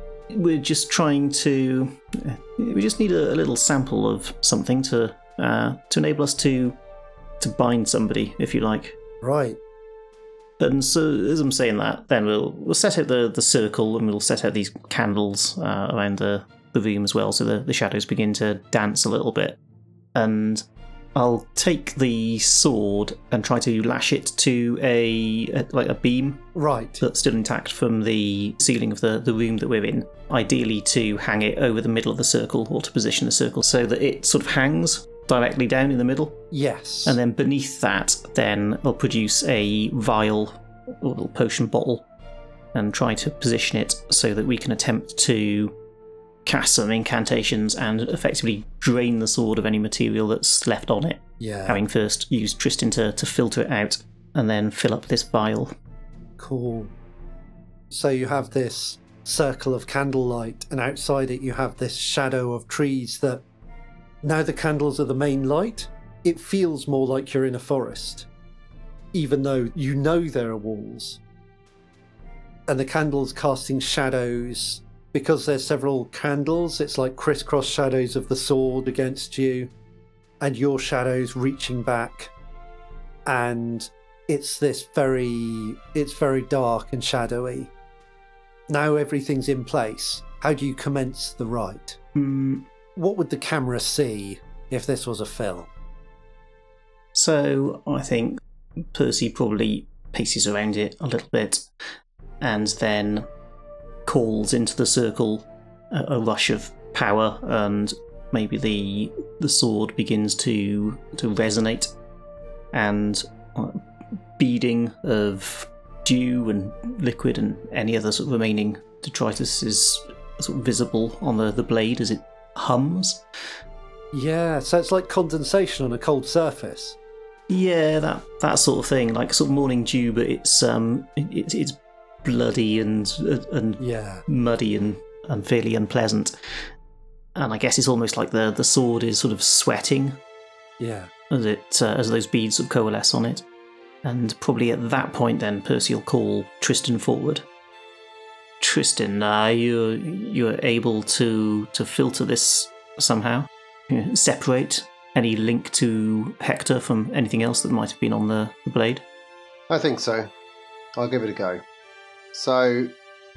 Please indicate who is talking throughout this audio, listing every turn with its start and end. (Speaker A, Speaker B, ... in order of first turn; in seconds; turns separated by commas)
Speaker A: 0.3-6.8, Speaker A: 7.4-9.0, Speaker B: 9.2-9.6, Speaker A: 10.6-19.6, Speaker A: 20.1-20.6, Speaker A: 21.1-26.5, Speaker B: 26.5-27.0, Speaker A: 27.0-36.4, Speaker B: 36.5-37.2, Speaker A: 37.0-42.0, Speaker A: 42.7-45.7, Speaker A: 46.5-55.7, Speaker B: 51.4-51.8, Speaker B: 56.4-56.9, Speaker B: 57.9-63.4, Speaker B: 64.2-68.3, Speaker B: 69.1-71.2, Speaker B: 72.7-79.7, Speaker B: 80.4-82.3, Speaker B: 83.2-87.7, Speaker B: 88.7-92.0, Speaker A: 92.1-92.7, Speaker B: 93.0-95.7, Speaker A: 97.1-98.4, Speaker A: 98.9-101.7, Speaker A: 102.4-103.2, Speaker A: 104.0-111.9, Speaker A: 112.7-113.8, Speaker A: 114.4-123.2, Speaker B: 124.1-127.0, Speaker A: 127.5-136.3, Speaker B: 133.8-134.2, Speaker A: 137.3-140.2, Speaker B: 140.8-141.1, Speaker A: 141.3-143.4, Speaker A: 144.0-147.4, Speaker A: 148.6-159.0, Speaker C: 159.7-160.3, Speaker C: 160.9-161.6, Speaker C: 162.3-162.9